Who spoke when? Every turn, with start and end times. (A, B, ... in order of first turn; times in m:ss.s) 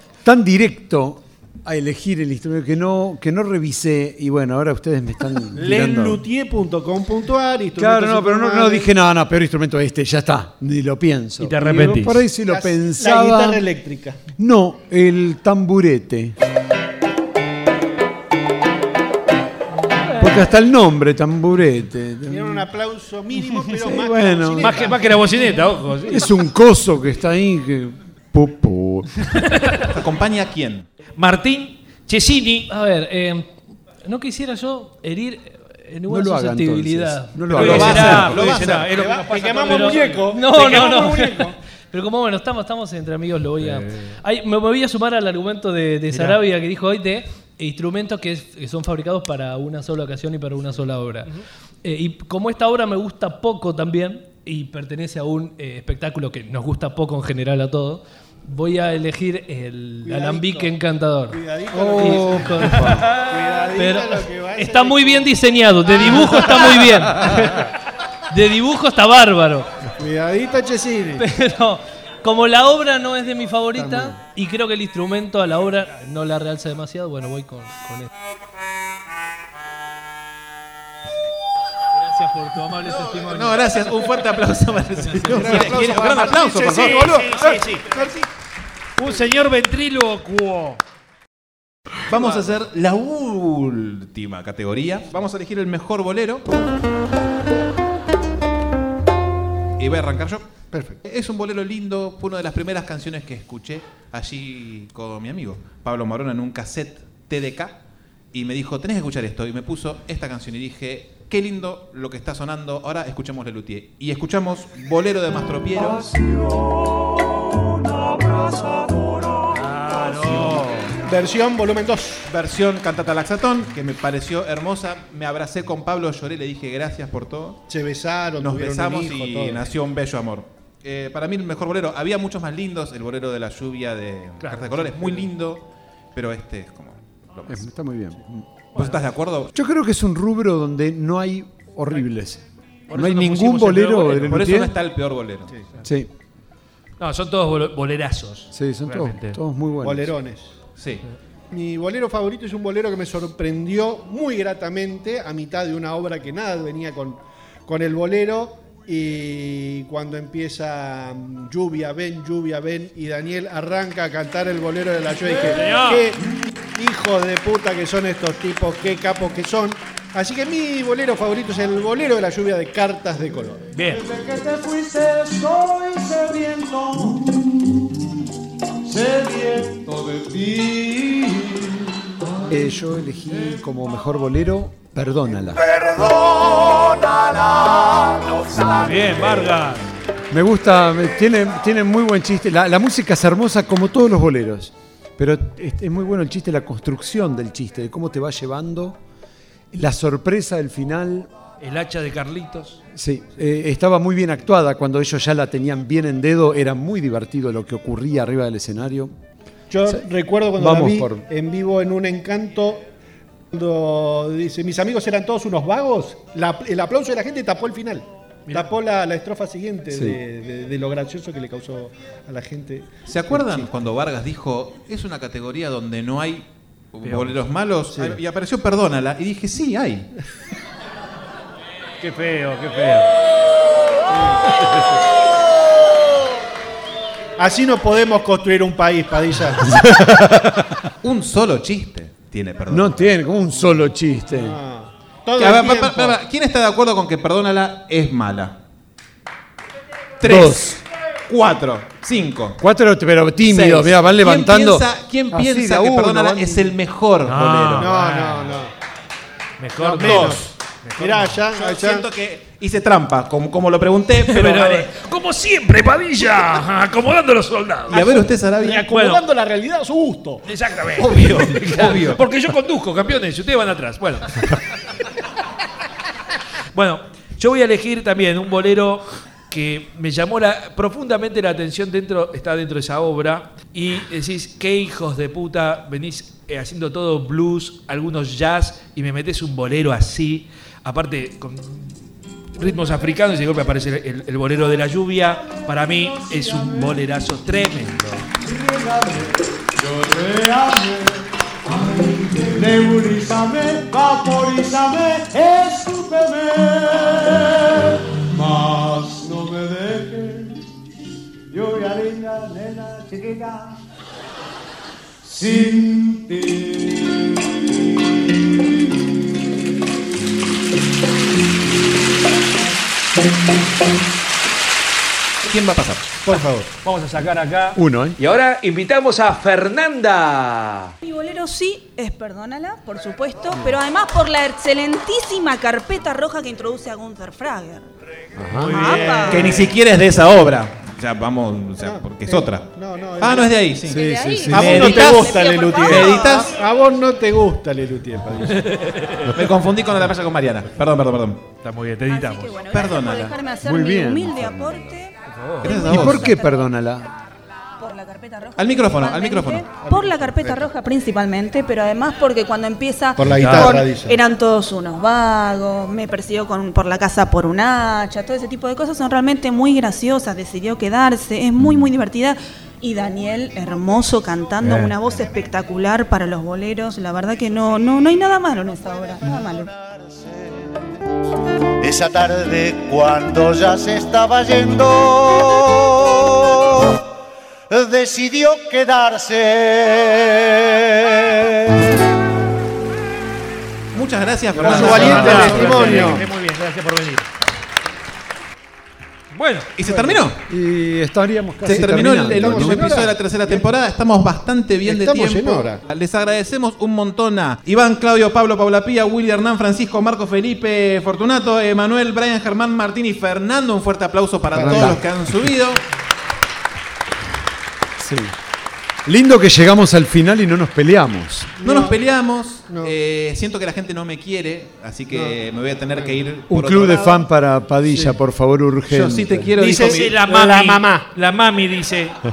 0:00.2-0:06.2 A
0:05.5-0:08.9 B
0:07.8-0:13.6 A
0:11.4-0:12.2 C
0:12.4-0:14.2 B
0:14.4-0:16.4 A
0:20.2-0:22.6 A
0:22.3-0:25.5 B
0:23.6-0:24.9 A
0:24.6-0:26.3 C
0:26.1-0:29.1 A
0:29.8-0:30.9 D
0:31.2-0:32.7 C
0:32.7-0:38.1 E
0:36.1-0:38.4 A
0:37.5-0:40.9 C
0:37.5-0:38.9 D
0:38.7-0:41.6 B
0:39.6-1:01.4 E
0:46.1-0:46.4 C
1:00.0-1:00.8 B
1:01.3-1:06.9 B
1:01.7-1:03.1 A
1:02.0-1:07.6 E
1:08.3-1:09.7 E
1:10.0-1:11.2 B
1:11.2-1:18.1 E
1:13.8-1:14.2 B
1:21.9-1:23.8 E
1:22.8-1:27.3 D
1:25.0-1:25.7 E
1:25.3-1:28.0 C
1:25.6-1:26.2 B
1:26.8-1:28.2 B
1:29.0-1:30.8 C
1:32.1-1:36.5 D
1:39.8-1:40.4 D
1:40.7-1:41.0 B
1:41.0-1:47.8 D
1:48.3-1:56.1 D
1:56.2-1:57.0 F
1:57.9-1:59.3 F
1:59.5-2:00.9 C
2:01.0-2:02.3 B
2:02.3-2:07.6 D
2:07.7-2:09.6 B
2:08.4-2:17.7 D
2:14.4-2:15.2 C
2:17.5-2:18.4 A
2:18.7-2:19.5 D
2:18.8-2:19.0 C
2:19.5-2:24.7 A
2:22.9-2:24.3 C
2:24.1-2:25.5 D
2:25.8-2:26.1 A
2:27.0-2:29.4 C
2:28.5-2:30.1 A
2:29.8-2:30.5 B
2:30.8-2:31.0 D
2:31.5-2:46.2 B
2:45.5-2:46.1 C
2:46.7-2:53.6 B
2:53.7-2:54.0 C
2:53.9-2:57.3 F
2:58.8-3:01.9 F
3:02.5-3:05.6 A
3:06.0-3:06.8 F
3:08.7-3:09.9 C
3:10.3-3:19.0 A
3:19.7-3:21.3 A
3:21.6-3:22.8 C
3:22.9-3:29.1 A
3:29.7-3:32.9 B
3:30.6-3:31.2 A
3:33.5-3:43.7 B
3:39.9-3:40.2 A
3:43.0-3:50.1 D
3:47.0-3:47.4 C
3:47.9-3:48.2 B
3:52.0-3:53.1 C
3:54.1-3:54.4 B
3:57.4-3:59.7 B
3:59.8-4:00.5 A
4:01.0-4:03.1 D
4:02.7-4:04.6 A
4:04.3-4:06.2 B
4:05.4-4:08.6 D
4:10.2-4:10.7 D
4:10.2-4:10.8 A
4:11.3-4:12.6 D
4:12.6-4:16.7 A
4:13.4-4:18.0 D
4:17.2-4:18.6 C
4:17.8-4:18.7 B
4:19.6-4:21.4 C
4:19.8-4:20.4 B
4:20.0-4:20.4 D
4:21.0-4:22.0 B
4:21.5-4:24.9 D
4:24.2-4:28.1 C
4:27.9-4:28.9 D
4:27.9-4:30.4 B
4:28.8-4:29.2 C
4:30.4-4:34.3 C
4:31.0-4:32.2 D
4:36.7-4:52.0 C
4:52.5-4:58.3 C
4:55.4-4:57.0 F
4:58.4-5:10.6 F
5:11.5-5:13.8 F
5:15.2-5:17.2 F
5:25.4-5:26.1 D
5:26.2-5:26.7 B
5:26.8-5:30.9 C
5:27.7-5:28.2 A
5:31.0-5:37.9 G
5:38.4-5:38.9 A
5:38.6-5:39.7 C
5:38.7-5:39.4 G
5:39.1-5:46.5 D
5:41.8-5:43.6 B
5:43.8-5:45.0 A
5:43.9-5:46.5 G
5:44.5-5:48.8 B
5:48.7-5:49.3 C
5:49.3-5:51.5 D
5:51.6-5:52.6 C
5:52.1-5:56.6 G
5:52.6-5:53.4 D
5:53.6-5:55.0 A
5:55.3-5:55.8 C
5:55.6-5:56.3 D
5:55.7-5:57.1 A
5:57.8-6:19.7 G
5:58.6-5:59.7 D
5:59.8-6:00.7 B
6:03.2-6:04.2 B
6:03.2-6:03.8 C
6:19.7-6:20.4 H
6:21.8-6:27.0 H
6:27.7-6:31.2 H
6:33.9-6:36.0 D
6:34.5-6:36.3 A
6:34.7-6:36.3 B
6:34.7-6:37.2 C
6:39.3-6:39.7 C
6:39.8-6:40.4 D
6:39.9-6:40.2 B
6:40.5-6:43.0 A
6:41.6-6:43.6 B
6:41.6-6:55.8 D
6:44.8-6:45.8 B
6:54.5-6:55.0 B
6:54.5-6:55.0 A
6:58.0-6:58.3 A
6:59.0-7:01.5 A
7:01.6-7:02.0 B
7:01.6-7:07.2 D
7:05.1-7:05.4 B
7:05.9-7:06.2 B
7:06.5-7:09.5 A
7:07.8-7:08.2 B
7:08.9-7:10.2 D
7:09.6-7:11.1 B
7:09.7-7:12.2 C